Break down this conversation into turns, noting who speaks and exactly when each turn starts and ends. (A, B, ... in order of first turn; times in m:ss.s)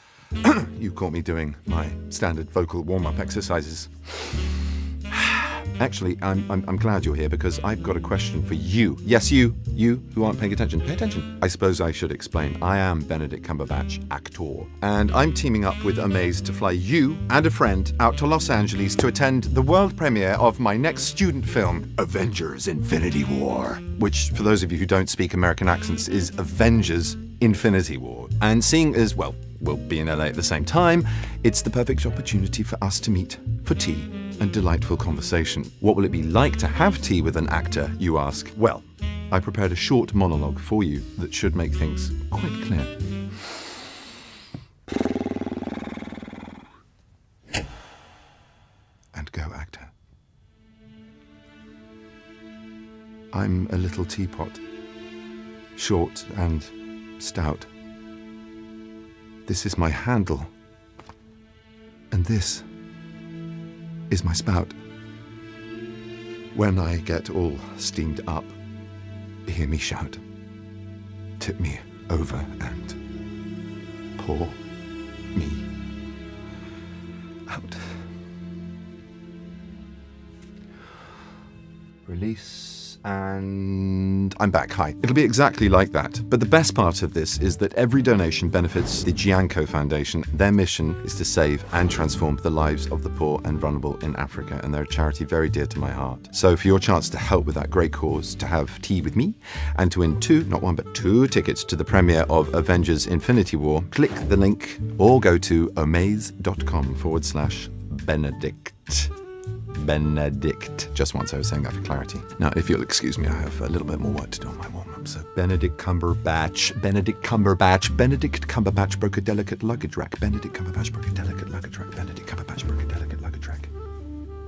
0:00.4-0:04.3 A
0:05.1-0:43.0 A
0:49.1-0:49.9 A
0:53.3-0:54.6 A
0:55.8-0:57.7 A
0:59.5-1:00.5 A
1:02.1-1:02.7 A
1:04.1-1:04.8 A
1:06.5-1:08.6 A
1:09.5-1:10.2 A
1:11.4-1:13.0 A
1:14.2-1:14.6 A
1:15.3-1:15.7 A
1:17.5-1:18.1 A
1:22.0-1:49.1 A
1:49.7-2:03.7 A